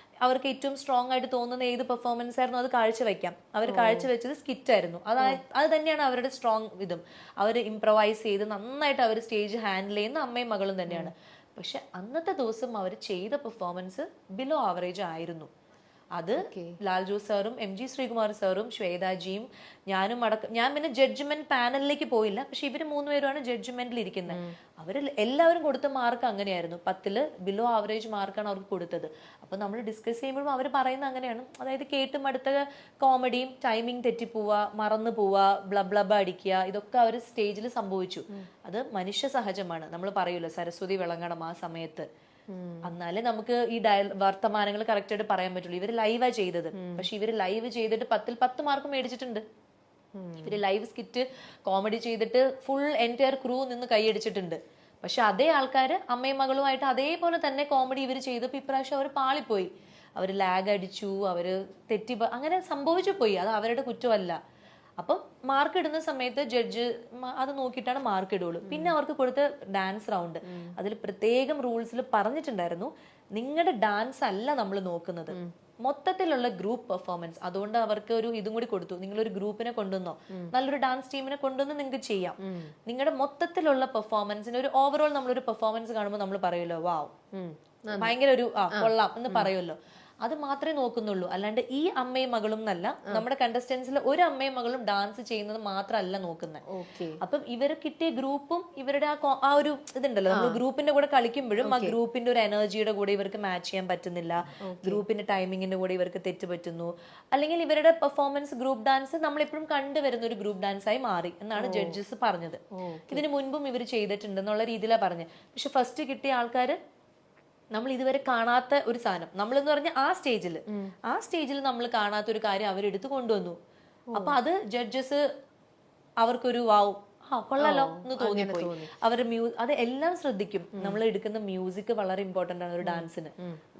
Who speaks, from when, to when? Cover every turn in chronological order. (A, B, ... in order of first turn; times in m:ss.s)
0:00.2-0:15.5 A
0:03.7-0:04.1 B
0:16.2-0:42.1 A
0:16.4-0:16.8 B
0:24.3-0:24.5 B
0:42.5-0:42.9 B
0:42.8-0:49.4 A
0:46.8-0:47.0 B
0:50.1-0:50.6 B
0:50.4-1:04.4 A
1:05.0-1:27.1 A
1:08.6-1:09.0 B
1:10.4-1:10.7 B
1:22.4-1:22.7 B
1:27.3-1:28.2 B
1:28.0-1:36.6 A
1:28.7-1:29.5 B
1:36.7-1:37.2 B
1:37.2-1:56.8 A
1:40.3-1:40.6 B
1:41.6-1:42.0 B
1:44.6-1:45.0 B
1:51.6-1:52.0 B
1:52.7-1:53.2 B
1:57.7-2:03.6 A
2:04.1-2:05.2 A
2:06.2-2:13.3 A
2:07.6-2:08.9 B
2:12.8-2:13.6 B